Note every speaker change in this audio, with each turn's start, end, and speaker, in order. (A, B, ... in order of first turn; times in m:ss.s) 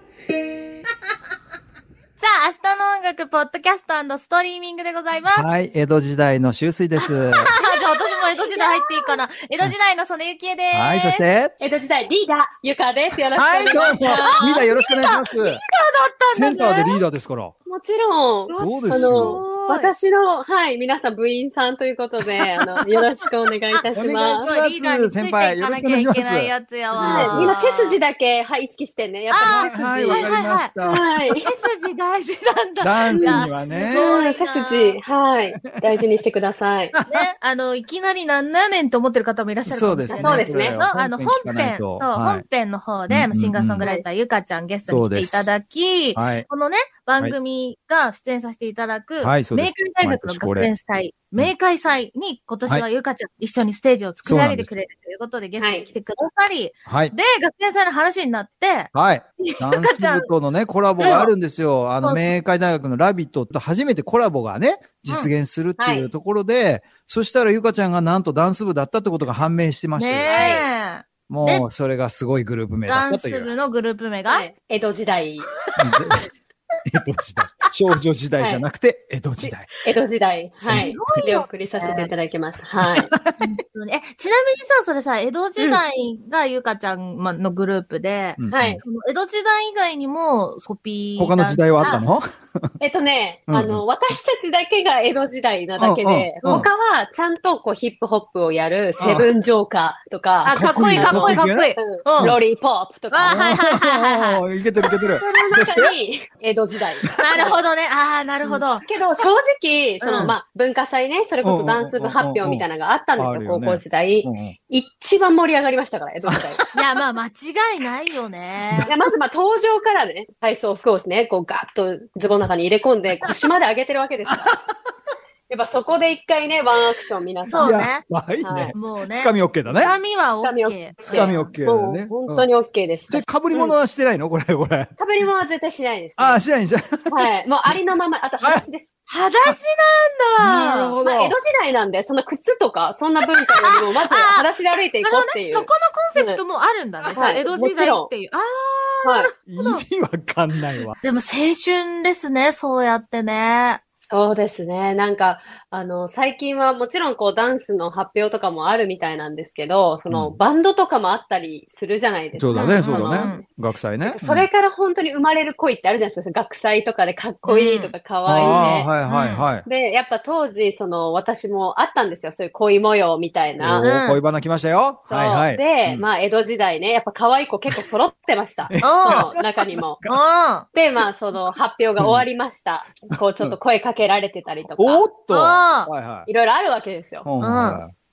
0:02.2-0:05.5 A
0:05.3-0:07.5 B
0:07.0-0:11.2 A
0:07.6-0:09.2 C
0:10.7-0:11.5 B
0:11.6-0:14.7 C
0:13.4-0:15.6 B
0:13.6-0:17.0 A
0:16.3-0:17.5 B
0:17.6-0:24.5 C
0:18.5-0:19.9 A
0:18.6-0:19.4 B
0:23.9-0:27.6 B
0:24.4-0:28.0 A
0:27.0-0:31.5 C
0:29.3-0:35.0 A
0:29.4-0:31.0 B
0:32.8-0:34.1 B
0:33.1-0:36.9 C
0:36.9-0:37.3 B
0:37.1-1:00.3 A
0:39.6-0:42.4 B
0:40.1-0:40.8 C
0:43.1-0:43.9 B
0:44.9-0:45.5 B
0:46.1-0:46.5 B
0:49.2-0:50.7 B
0:54.2-0:54.7 B
0:55.6-0:55.9 C
0:56.9-0:57.1 B
0:58.9-1:10.5 B
1:01.0-1:01.3 A
1:01.0-1:01.3 C
1:02.0-1:02.4 A
1:05.0-1:05.3 A
1:05.8-1:06.1 C
1:09.9-1:11.7 A
1:10.2-1:10.6 C
1:11.3-1:13.5 B
1:12.8-1:14.5 A
1:14.3-1:15.5 C
1:15.8-1:16.2 B
1:16.9-1:19.7 B
1:18.4-1:18.6 C
1:19.4-1:23.1 C
1:20.7-1:22.1 A
1:22.8-1:23.5 B
1:23.4-1:32.0 A
1:28.4-1:28.8 B
1:28.5-1:28.8 C
1:31.2-1:32.7 B
1:32.8-1:43.5 C
1:33.5-1:33.8 B
1:35.8-1:36.7 B
1:39.0-1:39.3 B
1:40.4-1:42.4 A
1:40.5-1:42.4 B
1:43.1-1:45.2 A
1:43.3-1:45.9 B
1:45.2-1:47.6 C
1:47.2-1:48.9 A
1:48.4-1:56.6 C
1:50.0-1:50.4 A
1:51.4-1:52.6 B
1:53.2-1:54.5 B
1:56.2-1:56.8 B
1:56.7-1:58.9 A
1:58.9-2:04.6 C
2:05.5-2:07.8 C
2:07.4-2:08.1 A
2:07.6-2:09.9 B
2:08.4-2:08.8 C
2:08.7-2:11.5 A
2:09.7-2:13.8 C
2:11.0-2:12.5 B
2:13.1-2:14.9 B
2:15.0-2:16.4 C
2:16.2-2:17.1 B
2:17.1-2:18.9 C
2:19.1-2:21.0 A
2:20.4-2:21.4 B
2:21.0-2:26.4 C
2:23.2-2:24.4 A
2:25.0-2:29.8 A
2:27.1-2:28.1 C
2:29.0-2:29.3 C
2:29.5-2:30.9 B
2:31.0-2:33.8 A
2:34.1-2:43.4 C
2:40.1-2:40.4 B
2:42.4-2:44.5 B
2:42.5-2:43.4 A
2:44.0-2:48.9 C
2:47.4-2:49.5 A
2:48.2-2:49.6 B
2:49.6-2:53.9 C
2:53.6-2:56.0 B
2:53.8-2:54.2 A
2:55.1-3:00.0 C
2:58.7-3:00.2 B
2:58.8-2:59.3 A
3:00.0-3:00.7 A
3:00.7-3:05.1 C
3:02.0-3:02.2 B
3:03.1-3:03.6 B
3:04.8-3:06.3 B
3:05.3-3:05.9 A
3:06.2-3:07.3 C
3:07.2-3:07.9 B
3:07.4-3:07.8 A